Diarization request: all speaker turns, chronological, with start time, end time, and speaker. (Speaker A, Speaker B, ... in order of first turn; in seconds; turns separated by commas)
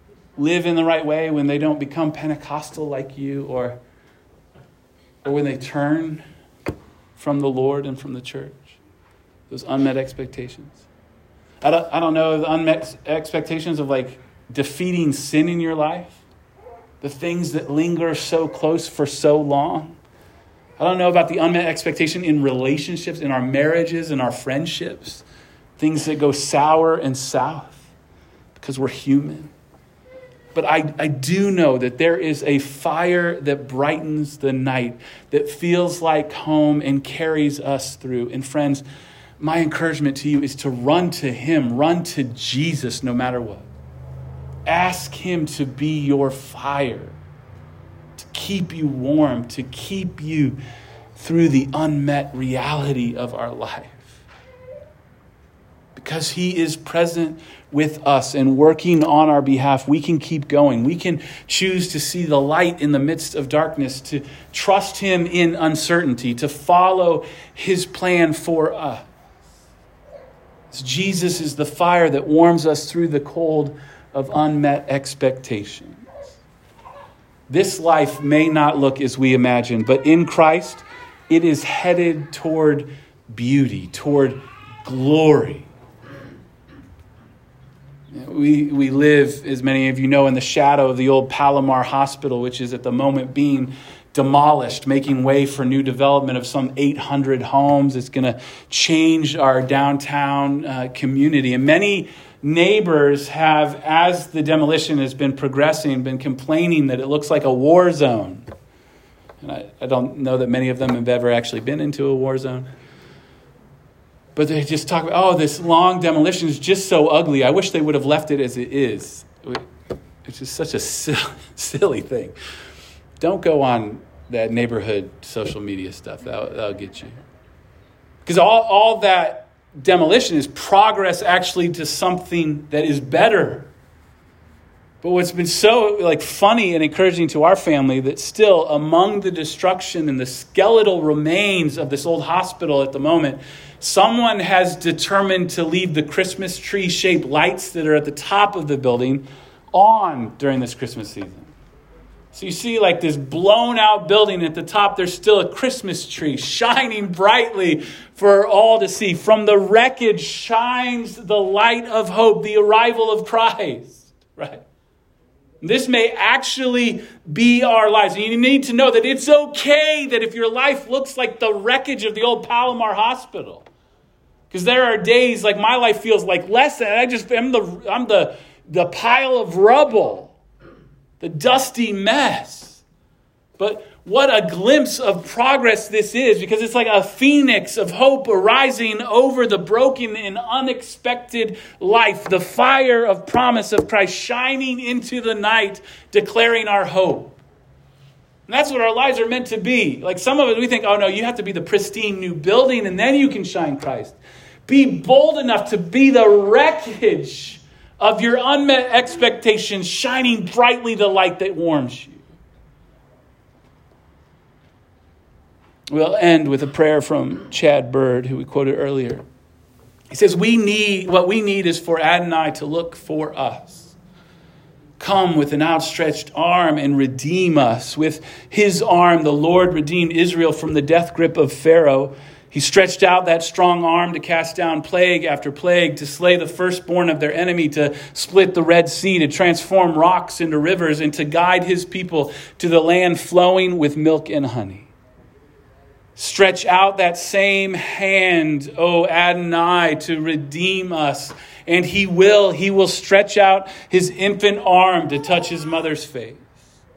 Speaker A: 0.4-3.8, Speaker A: 5.2-6.2, Speaker A: 7.2-8.8, Speaker A: 9.5-10.8, Speaker A: 11.6-16.2, Speaker A: 17.0-20.0, Speaker A: 20.8-25.2, Speaker A: 25.8-27.9, Speaker A: 28.6-29.5, Speaker A: 30.5-38.8, Speaker A: 39.4-43.7, Speaker A: 44.7-47.1, Speaker A: 48.2-50.6, Speaker A: 51.2-54.1, Speaker A: 56.0-69.1, Speaker A: 70.7-76.1, Speaker A: 77.5-85.7, Speaker A: 88.1-108.5, Speaker A: 109.4-112.7, Speaker A: 114.4-119.6, Speaker A: 120.2-122.3, Speaker A: 123.2-127.2, Speaker A: 128.2-133.7, Speaker A: 135.0-151.5, Speaker A: 152.3-164.6, Speaker A: 165.6-173.7, Speaker A: 174.5-180.3, Speaker A: 181.2-182.8, Speaker A: 183.6-197.4, Speaker A: 198.5-212.2, Speaker A: 215.9-219.2, Speaker A: 220.1-223.9, Speaker A: 225.0-244.9, Speaker A: 246.2-256.5